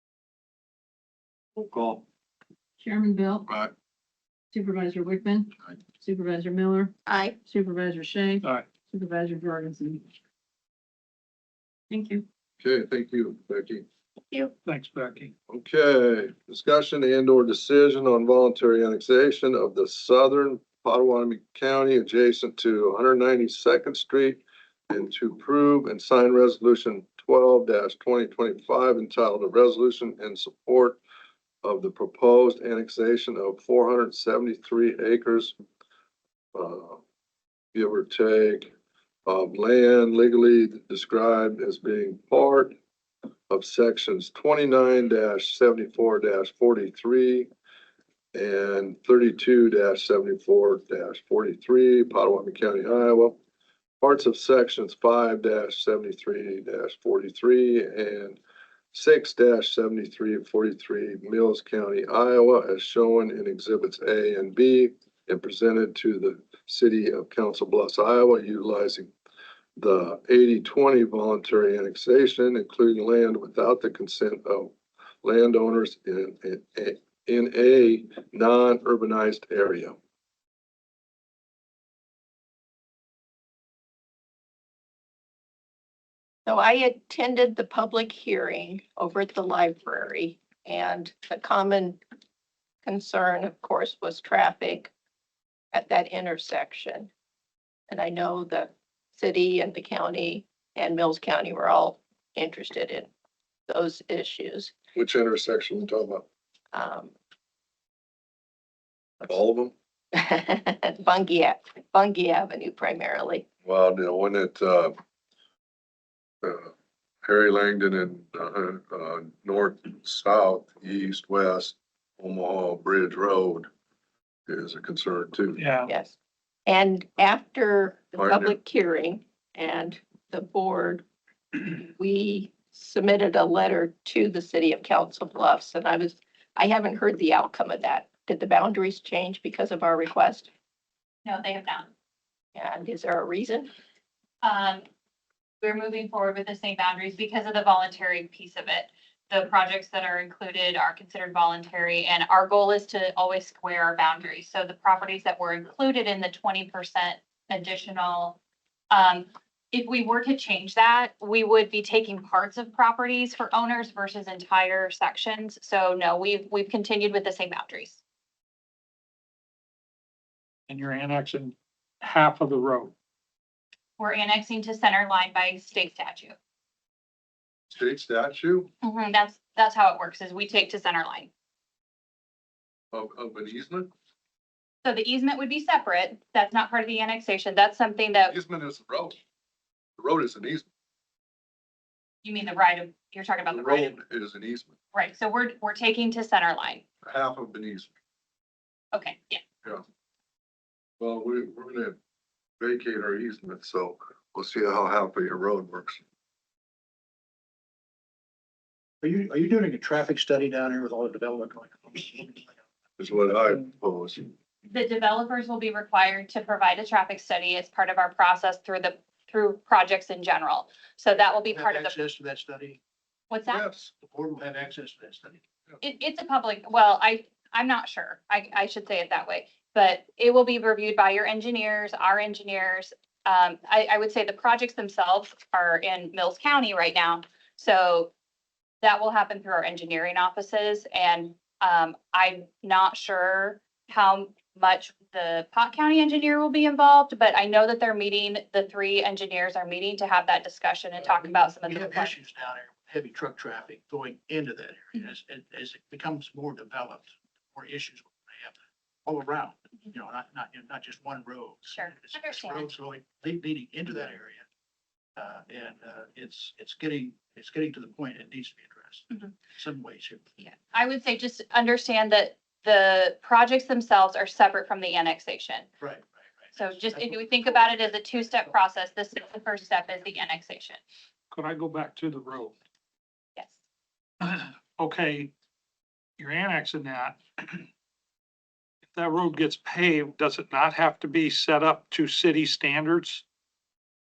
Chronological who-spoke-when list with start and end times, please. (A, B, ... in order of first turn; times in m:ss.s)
0:01.6-0:02.0 A
0:02.8-0:03.4 B
0:03.5-0:03.7 A
0:04.5-0:05.5 B
0:06.0-0:06.9 B
0:07.0-0:07.4 C
0:07.4-0:08.4 B
0:08.4-0:08.7 D
0:08.9-0:10.0 B
0:11.9-0:12.2 B
0:12.6-0:13.8 A
0:14.6-0:15.3 D
0:15.5-0:31.0 A
0:31.6-0:35.5 A
0:36.5-0:37.0 A
0:37.7-0:38.7 A
0:39.2-0:42.7 A
0:43.5-0:47.5 A
0:48.3-0:53.4 A
0:54.0-0:58.4 A
0:58.9-1:09.1 A
1:09.8-1:20.0 A
1:26.4-1:32.0 C
1:32.8-1:34.9 C
1:35.7-1:37.1 C
1:37.9-1:43.1 C
1:43.7-1:44.7 C
1:44.9-1:46.2 A
1:46.7-1:47.1 C
1:49.2-1:49.7 A
1:50.1-1:53.4 C
1:53.6-1:54.9 A
1:56.4-1:56.7 A
1:57.2-2:03.7 A
2:04.5-2:05.6 A
2:05.6-2:05.9 D
2:05.8-2:20.5 C
2:08.2-2:08.6 A
2:21.2-2:21.9 E
2:22.5-2:23.7 C
2:24.4-2:24.8 E
2:25.6-2:38.4 E
2:38.9-2:48.0 E
2:50.7-2:52.9 D
2:54.0-2:56.3 E
2:57.7-2:58.7 A
2:58.8-3:01.3 E
3:02.9-3:03.9 A
3:04.8-3:08.3 E
3:08.3-3:09.2 A
3:10.0-3:10.7 A
3:12.2-3:14.0 E
3:13.5-3:14.7 A
3:14.9-3:16.8 E
3:17.0-3:17.9 A
3:18.9-3:19.4 E
3:21.0-3:22.0 A
3:22.6-3:26.0 A
3:29.0-3:32.6 F
3:33.0-3:34.3 A
3:34.6-3:41.9 E
3:41.5-3:42.8 F
3:43.3-3:43.6 E
3:43.5-3:43.9 A
3:43.9-3:45.4 F
3:45.8-3:58.1 E
3:58.8-4:12.2 E
4:11.6-4:24.4 F
4:21.7-4:22.7 E
4:25.2-4:30.2 F
4:30.4-4:35.7 E
4:35.8-4:37.6 F
4:36.5-4:40.8 E
4:41.3-4:42.6 D
4:44.2-4:45.3 D
4:46.2-4:47.6 D
4:48.9-4:53.2 D